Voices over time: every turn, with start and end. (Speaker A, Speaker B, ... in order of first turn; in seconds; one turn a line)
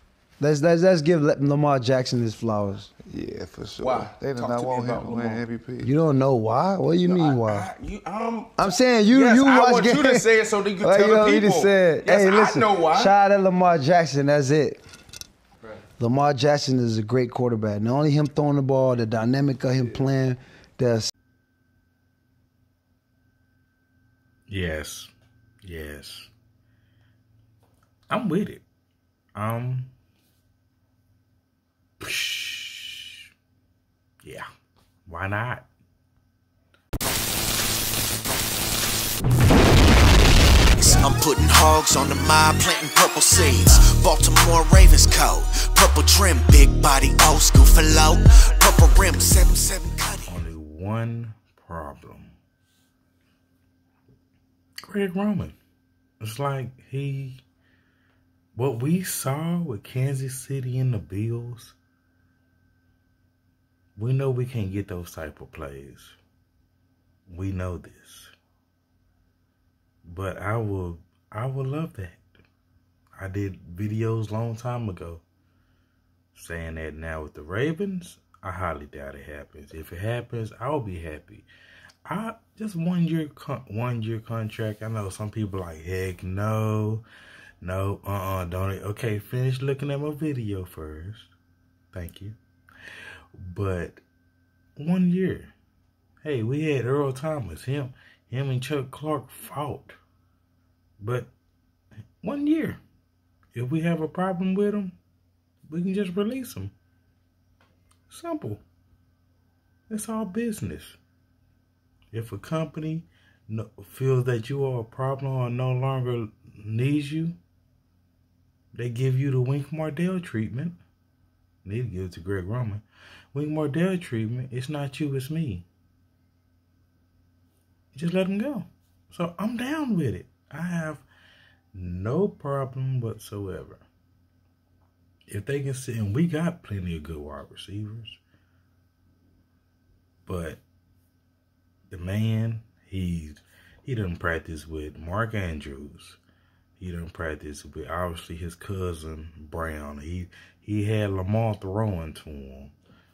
Speaker A: 0.4-2.9
Speaker B: 3.0-5.9
Speaker C: 3.8-5.4
Speaker A: 5.8-7.7
Speaker C: 7.0-13.1
Speaker A: 8.6-10.3
Speaker A: 10.8-14.8
Speaker A: 16.0-21.1
Speaker D: 24.5-25.1
Speaker D: 25.6-26.3
Speaker D: 28.1-28.6
Speaker D: 29.3-29.9
Speaker D: 32.0-33.2
Speaker D: 35.0-35.7
Speaker E: 40.8-50.2
Speaker D: 50.3-52.3
Speaker D: 54.9-55.6
Speaker D: 56.2-57.4
Speaker D: 58.5-61.8
Speaker D: 64.0-66.2
Speaker D: 67.3-68.3
Speaker D: 70.1-72.2
Speaker D: 73.2-75.2
Speaker D: 76.3-81.5
Speaker D: 82.1-87.0
Speaker D: 87.6-91.3
Speaker D: 91.9-92.4
Speaker D: 93.4-94.0
Speaker D: 94.8-95.5
Speaker D: 96.2-100.0
Speaker D: 101.0-101.3
Speaker D: 102.2-102.8
Speaker D: 103.5-105.0
Speaker D: 105.7-106.7
Speaker D: 108.1-108.6
Speaker D: 109.9-111.0
Speaker D: 112.1-117.4
Speaker D: 118.7-120.8
Speaker D: 121.6-125.7
Speaker D: 127.9-131.1
Speaker D: 131.7-133.8
Speaker D: 135.3-138.2
Speaker D: 140.2-140.6
Speaker D: 141.9-146.2
Speaker D: 146.8-152.7